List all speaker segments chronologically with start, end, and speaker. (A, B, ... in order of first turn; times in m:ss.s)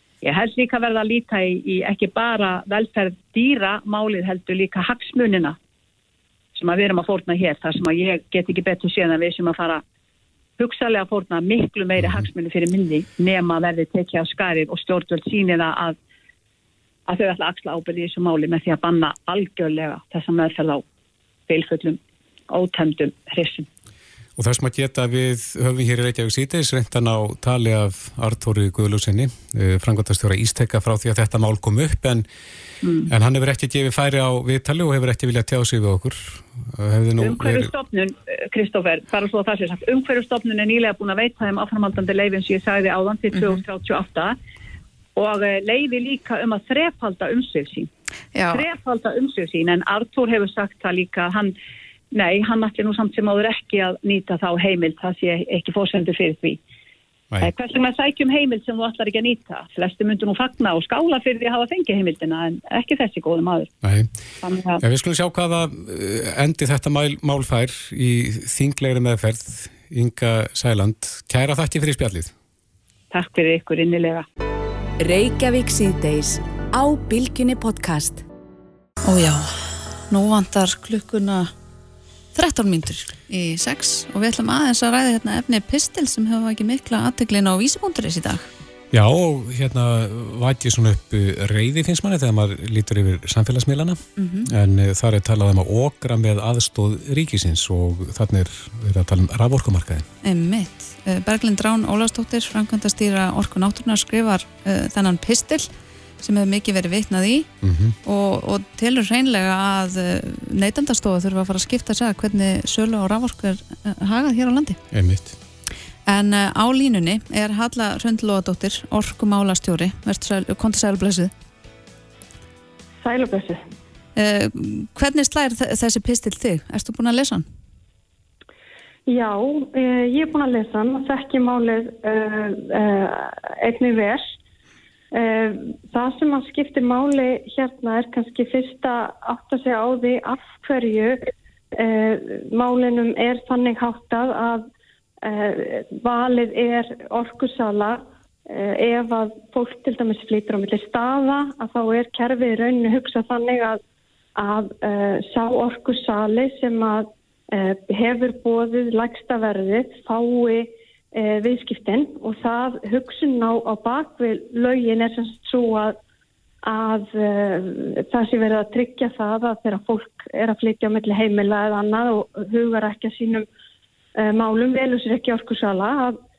0:00.2-0:05.6 A
0:06.5-0:09.8 A
0:10.6-0:16.0 A
0:17.1-0:20.8 A
0:21.5-0:23.7 A
0:24.4-0:32.3 B
0:32.8-0:33.1 A
0:33.1-0:37.7 B
0:37.2-0:44.4 A
0:45.2-0:47.9 A
0:48.3-0:48.6 C
0:48.5-0:51.5 A
0:52.1-0:56.6 A
0:57.4-1:03.7 A
1:03.8-1:04.1 B
1:04.4-1:04.8 A
1:04.8-1:12.3 B
1:13.1-1:14.2 A
1:15.0-1:18.2 D
1:19.0-1:21.5 C
1:22.3-1:28.5 C
1:28.9-1:40.0 B
1:34.2-1:34.5 C
1:40.2-1:45.7 C
1:46.2-1:47.5 C
1:47.6-1:48.0 B
1:48.0-1:54.8 C
1:54.9-1:55.4 B
1:56.0-2:01.3 C
2:03.0-2:03.6 E
2:04.2-2:07.4 C
2:09.1-2:14.3 E
2:15.1-2:24.7 E
2:25.2-2:33.8 E
2:34.4-2:46.0 E
2:46.6-2:53.5 E
2:54.2-2:56.2 E